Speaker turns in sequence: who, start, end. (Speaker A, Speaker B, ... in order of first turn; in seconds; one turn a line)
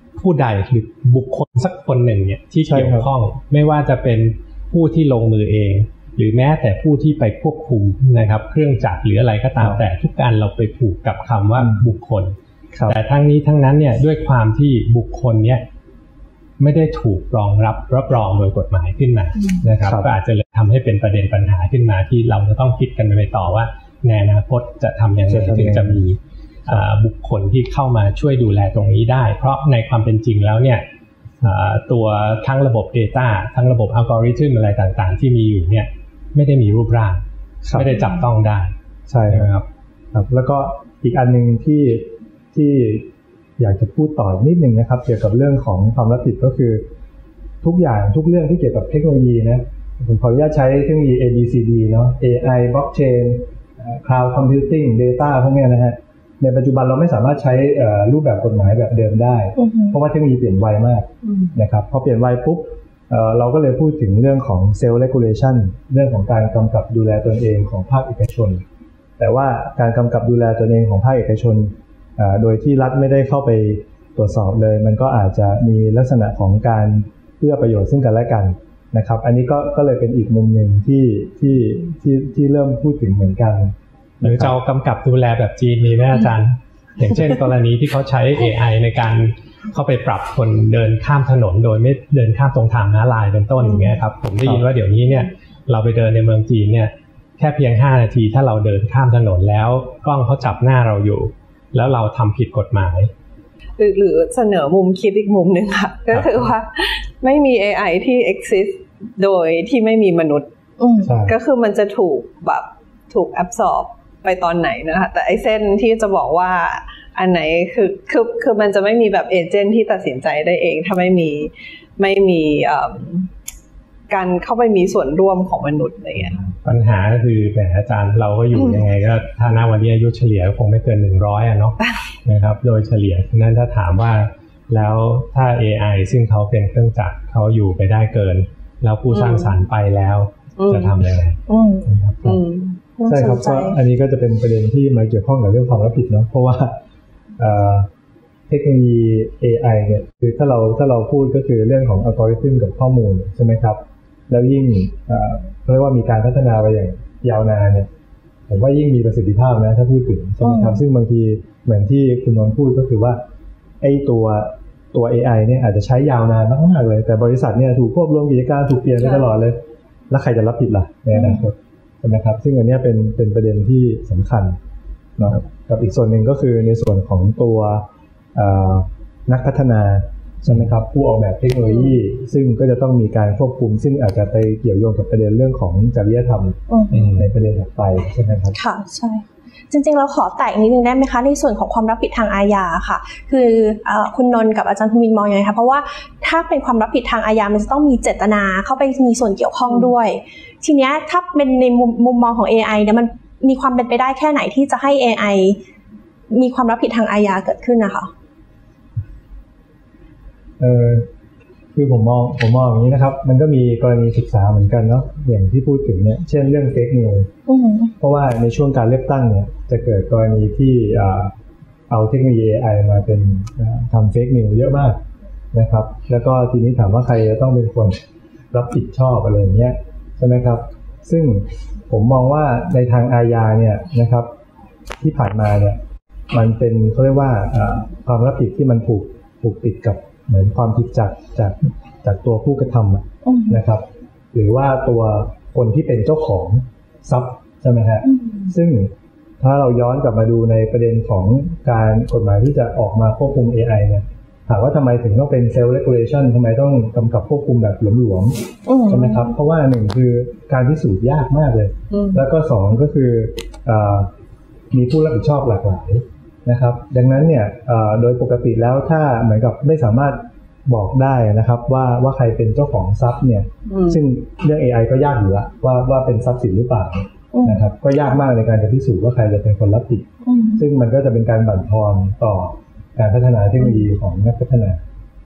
Speaker A: 0.2-12.3
Speaker B: 2.6-3.1
Speaker B: 11.6-11.8
Speaker A: 12.9-15.7
Speaker A: 16.6-30.9
Speaker B: 19.8-20.1
Speaker B: 25.3-26.0
Speaker A: 31.4-38.7
Speaker B: 37.6-37.9
Speaker B: 39.1-39.5
Speaker A: 39.3-39.7
Speaker B: 40.1-46.9
Speaker B: 47.6-68.6
Speaker C: 59.6-59.9
Speaker D: 61.2-61.5
Speaker B: 69.2-84.6
Speaker A: 84.2-103.1
Speaker D: 93.6-94.0
Speaker D: 103.8-110.5
Speaker C: 110.8-111.1
Speaker B: 111.0-111.4
Speaker D: 111.2-123.3
Speaker D: 124.1-126.4
Speaker A: 126.6-142.4
Speaker D: 128.6-128.8
Speaker D: 139.1-139.5
Speaker D: 140.6-141.0
Speaker C: 141.5-141.9
Speaker D: 142.2-142.8
Speaker C: 143.0-143.8
Speaker B: 143.1-146.8
Speaker B: 147.4-147.9
Speaker B: 148.5-157.9
Speaker B: 158.5-163.2
Speaker C: 160.4-160.8
Speaker B: 163.8-169.6
Speaker B: 170.1-174.6
Speaker B: 175.2-188.6
Speaker C: 186.7-187.0
Speaker A: 186.9-187.2
Speaker C: 188.5-205.6
Speaker C: 206.3-208.1
Speaker B: 210.6-211.1
Speaker B: 211.8-217.3
Speaker C: 217.5-217.9
Speaker B: 218.0-221.3
Speaker B: 221.9-225.0
Speaker B: 225.5-228.0
Speaker B: 228.5-234.3
Speaker B: 235.0-235.8
Speaker B: 236.3-264.1
Speaker C: 243.2-243.6
Speaker C: 248.1-248.5
Speaker C: 258.6-259.3
Speaker D: 261.9-262.2
Speaker B: 264.7-284.8
Speaker D: 273.7-274.0
Speaker C: 277.3-277.6
Speaker C: 280.2-280.6